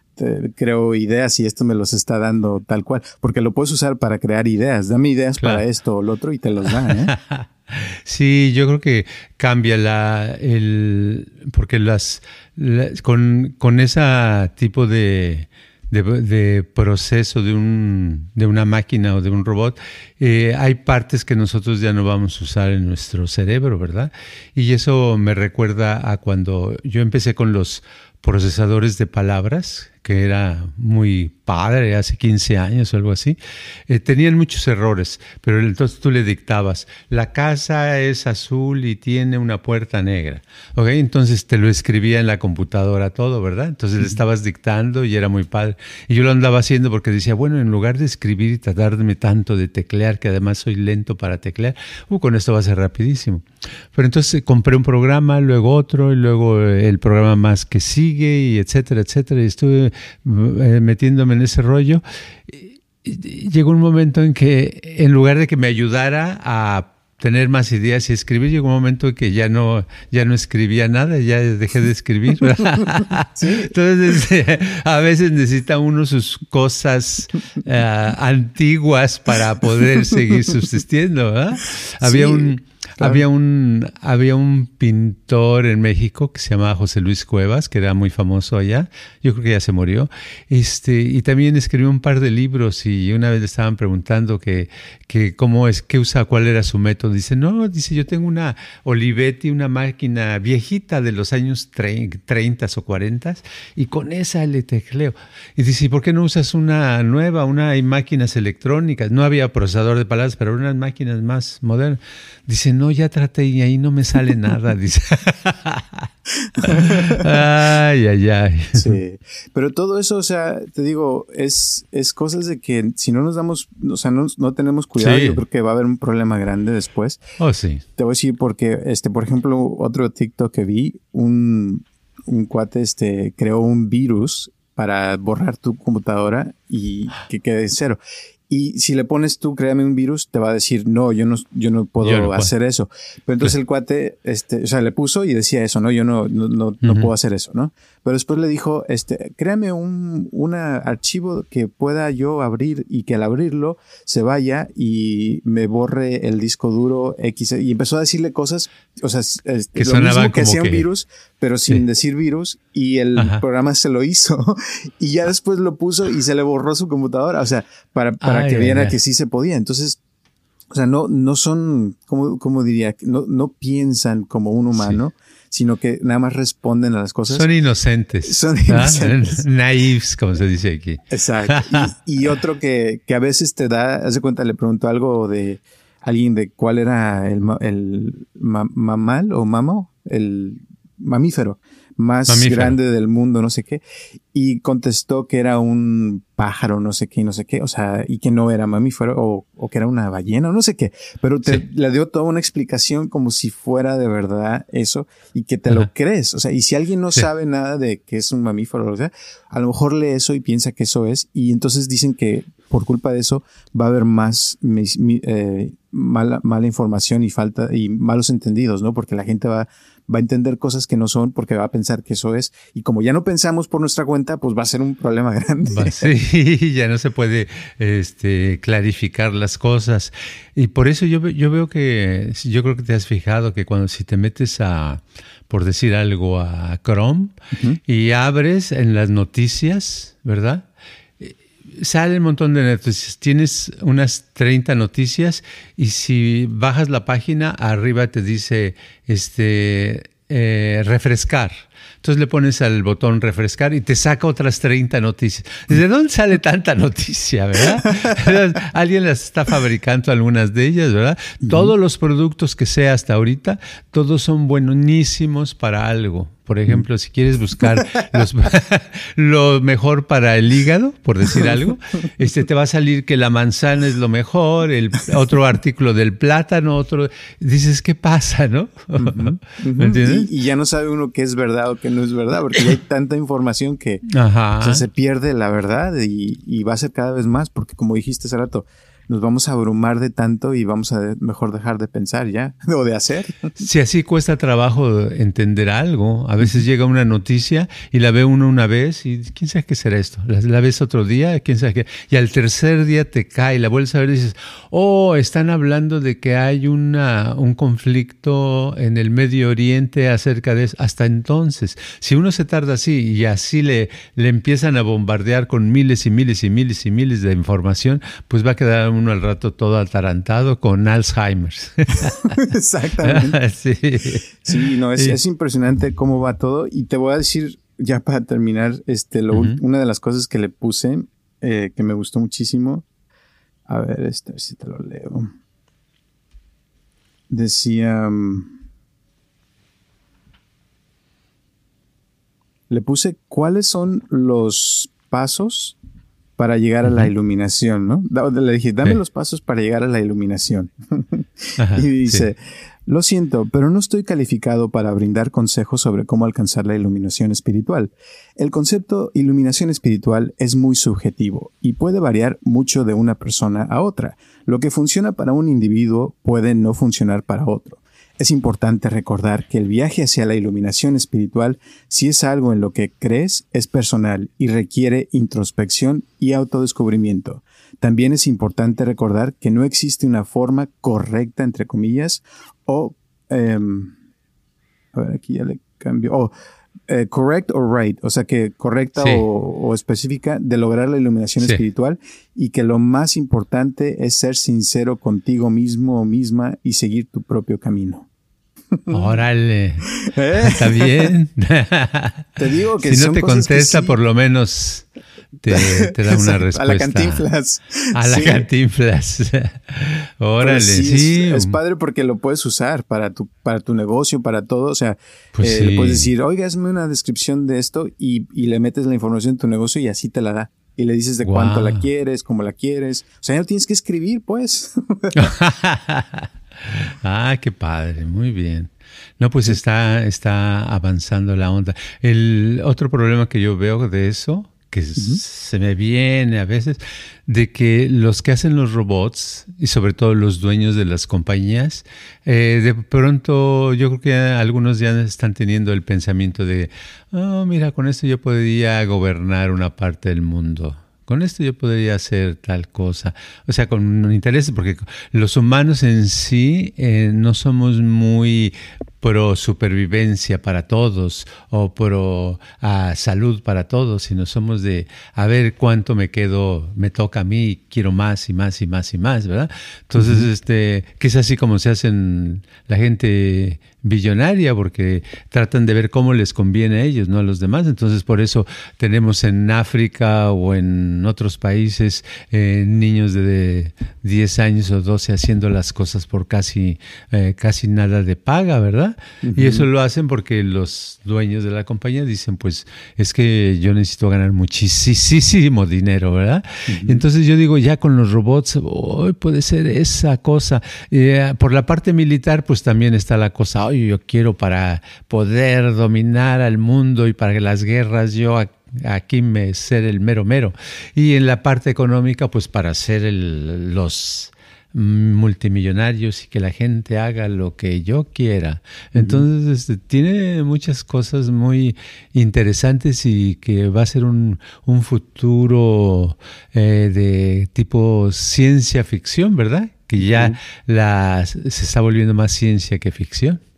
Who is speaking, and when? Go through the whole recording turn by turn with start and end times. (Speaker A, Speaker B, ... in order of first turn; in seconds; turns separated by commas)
Speaker A: 0.1-7.1, Speaker B: 6.7-119.0, Speaker A: 73.3-73.7, Speaker A: 82.0-83.2, Speaker A: 116.5-117.3, Speaker A: 118.7-127.2, Speaker B: 125.0-125.4, Speaker B: 127.4-127.8, Speaker A: 128.0-138.0, Speaker A: 138.5-170.0, Speaker B: 142.0-142.5, Speaker B: 146.8-147.1, Speaker B: 159.8-160.8, Speaker B: 163.2-163.4, Speaker B: 168.2-168.9, Speaker A: 170.7-177.4, Speaker B: 177.3-181.9, Speaker A: 178.2-179.4, Speaker A: 181.1-193.8, Speaker B: 192.3-192.8, Speaker A: 194.3-226.1, Speaker B: 225.7-237.3, Speaker B: 237.9-240.7, Speaker B: 241.2-280.3, Speaker A: 261.4-261.7, Speaker A: 278.9-284.0, Speaker B: 284.1-284.8, Speaker A: 284.6-293.6, Speaker B: 293.6-322.4, Speaker A: 322.0-323.4, Speaker B: 323.0-325.2, Speaker A: 324.4-332.8, Speaker B: 329.3-329.6, Speaker A: 333.7-335.3, Speaker A: 337.3-338.5, Speaker A: 342.7-345.8, Speaker A: 346.4-383.9, Speaker B: 346.8-347.1, Speaker B: 351.6-352.3, Speaker A: 384.9-386.3, Speaker A: 386.9-398.1, Speaker B: 388.9-389.2, Speaker B: 398.9-404.9, Speaker A: 399.9-401.1, Speaker A: 402.4-403.9, Speaker B: 405.4-407.2, Speaker A: 405.5-408.5, Speaker B: 407.9-411.6, Speaker A: 410.4-425.2, Speaker B: 415.3-416.1, Speaker B: 421.2-421.8, Speaker B: 425.1-533.4, Speaker A: 434.9-435.2, Speaker A: 469.9-470.3, Speaker A: 489.2-489.7, Speaker A: 496.7-497.0, Speaker A: 518.9-519.2, Speaker A: 530.0-530.4